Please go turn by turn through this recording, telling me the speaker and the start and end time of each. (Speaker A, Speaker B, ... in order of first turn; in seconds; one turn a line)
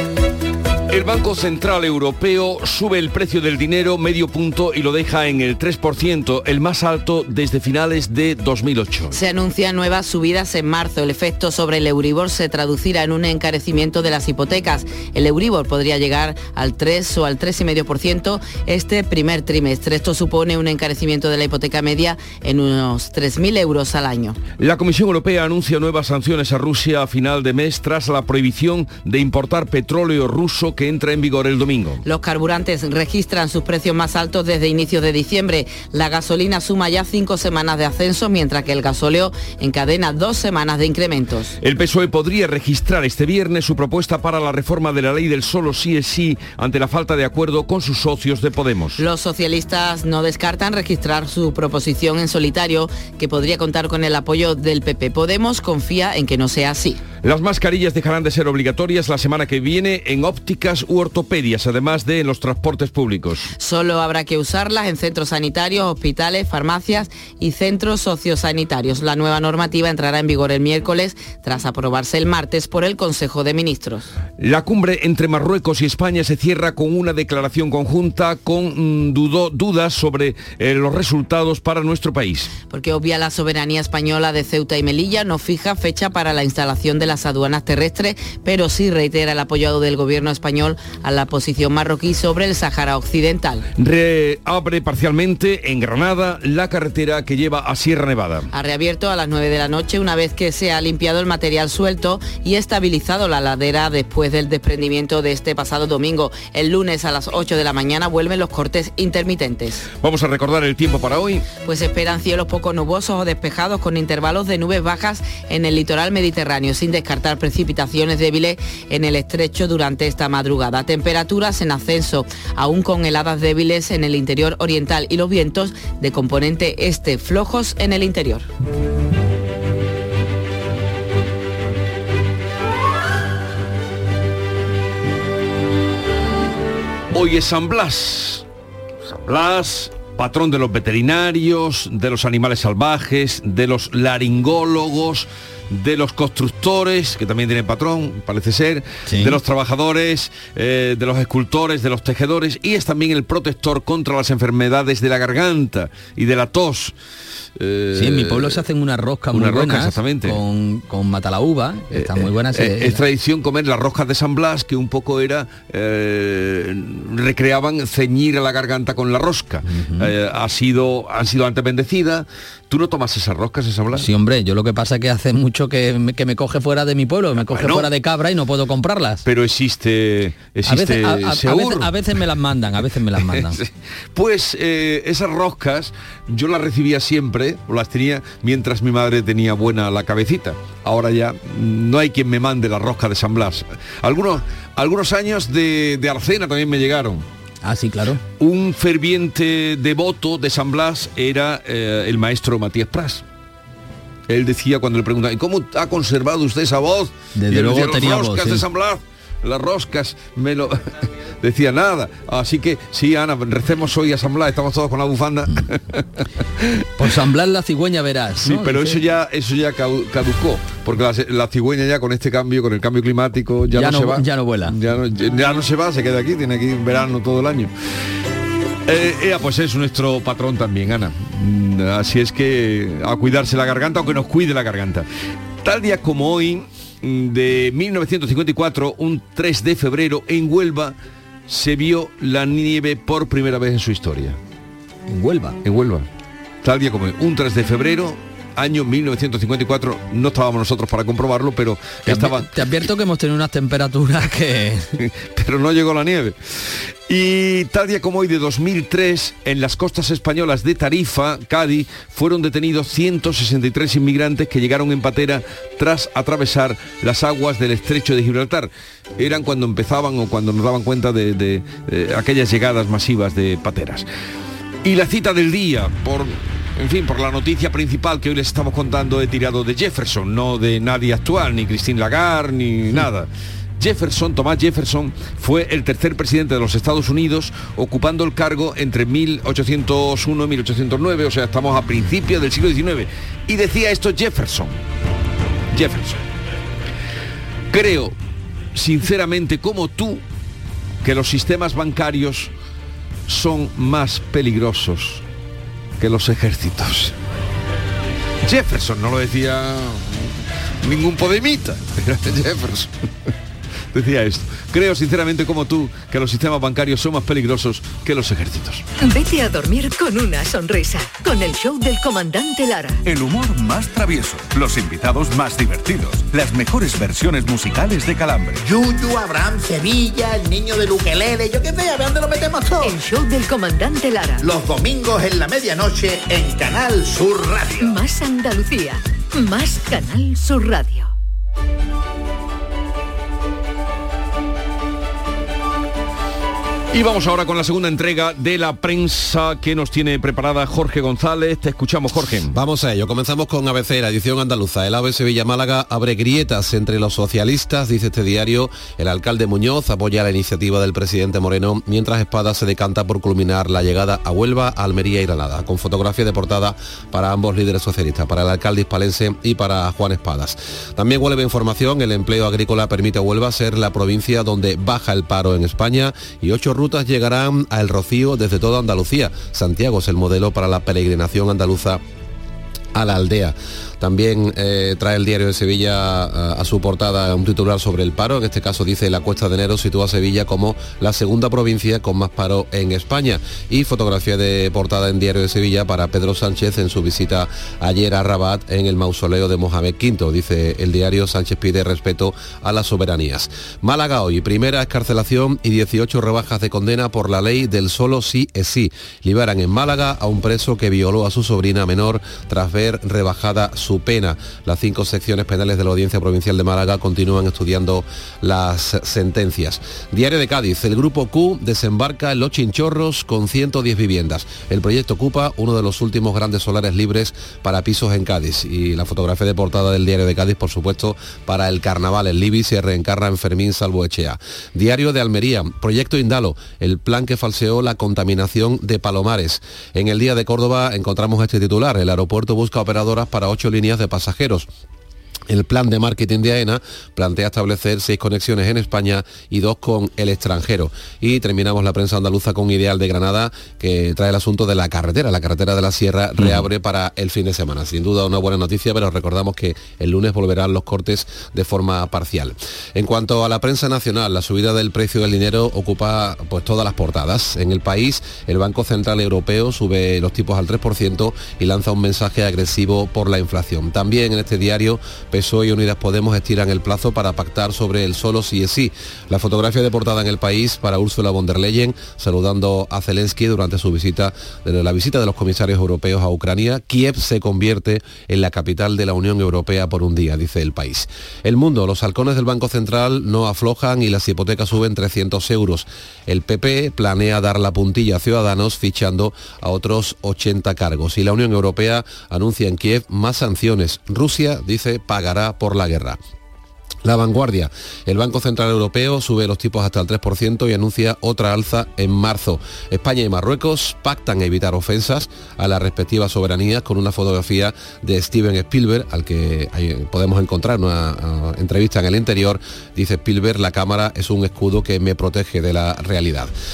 Speaker A: 0.9-9.2
Speaker B: 9.1-24.4
Speaker A: 24.6-32.0
Speaker B: 32.0-41.5
Speaker A: 41.6-49.0
Speaker B: 49.0-57.0
Speaker A: 57.2-63.5
Speaker B: 63.6-74.1
Speaker A: 74.4-82.5
Speaker B: 82.7-93.6
Speaker A: 93.8-98.5
Speaker B: 98.5-109.8
Speaker A: 110.0-111.4
Speaker B: 111.6-128.5
Speaker A: 137.1-138.4
Speaker A: 139.1-156.9
Speaker C: 149.1-149.4
Speaker A: 157.6-158.6
Speaker C: 157.9-163.0
Speaker A: 159.3-160.4
Speaker A: 161.9-174.1
Speaker C: 169.7-170.1
Speaker C: 173.9-179.2
Speaker A: 177.5-177.9
Speaker A: 179.2-181.9
Speaker C: 180.7-183.6
Speaker A: 183.2-197.2
Speaker C: 197.6-198.2
Speaker A: 198.4-203.2
Speaker A: 204.3-216.6
Speaker C: 207.3-208.6
Speaker C: 217.0-218.9
Speaker A: 218.4-227.7
Speaker C: 223.7-224.7
Speaker A: 228.9-235.1
Speaker A: 235.6-240.9
Speaker A: 241.5-244.4
Speaker C: 245.1-245.6
Speaker A: 245.6-246.1
Speaker A: 246.6-252.5
Speaker C: 252.1-254.8
Speaker A: 255.0-274.1
Speaker A: 274.8-283.3
Speaker A: 283.8-294.8
Speaker A: 295.7-296.2
Speaker A: 297.7-298.1
Speaker A: 298.7-300.2
Speaker A: 301.0-302.5
Speaker A: 303.3-305.2
Speaker A: 306.0-307.1
Speaker A: 308.4-312.9
Speaker A: 313.9-318.8
Speaker D: 319.0-323.0
Speaker E: 323.0-328.6
Speaker F: 328.6-332.9
Speaker D: 332.8-334.5
Speaker F: 334.4-338.0
Speaker D: 337.8-341.1
Speaker A: 346.9-352.5
Speaker G: 352.5-382.0
Speaker G: 382.9-444.7
Speaker G: 445.5-506.2
Speaker G: 507.0-526.5